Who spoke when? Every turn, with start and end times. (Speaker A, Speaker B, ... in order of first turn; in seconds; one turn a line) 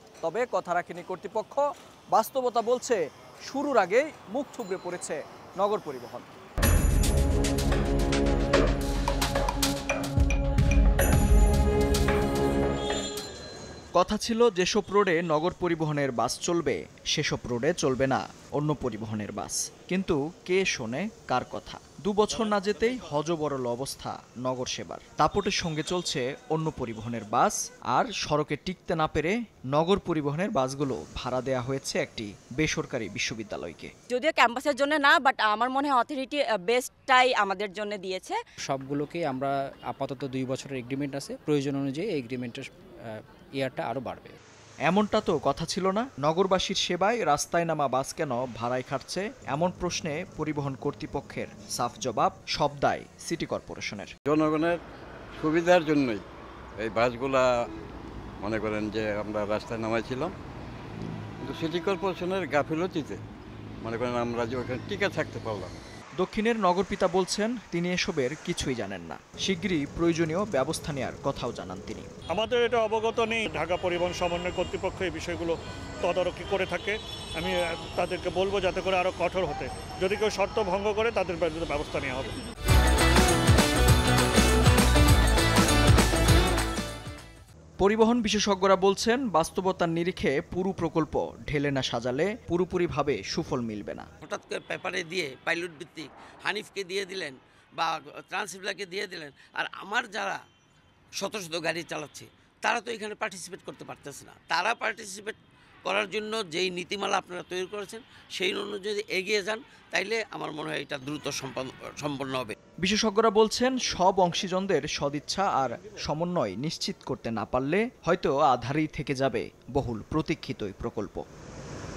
Speaker A: 0.2-6.3
Speaker A: 13.9-33.9
Speaker B: 34.1-38.4
Speaker C: 38.7-44.3
Speaker A: 44.9-54.1
Speaker D: 54.3-54.8
Speaker D: 55.4-56.2
Speaker D: 56.8-57.5
Speaker D: 58.4-60.3
Speaker D: 61.4-63.2
Speaker D: 63.8-65.8
Speaker A: 66.2-72.1
Speaker E: 72.3-82.3
Speaker A: 87.8-94.1
Speaker F: 94.2-100.4
Speaker F: 101.2-105.3
Speaker F: 105.9-112.5
Speaker A: 112.8-121.2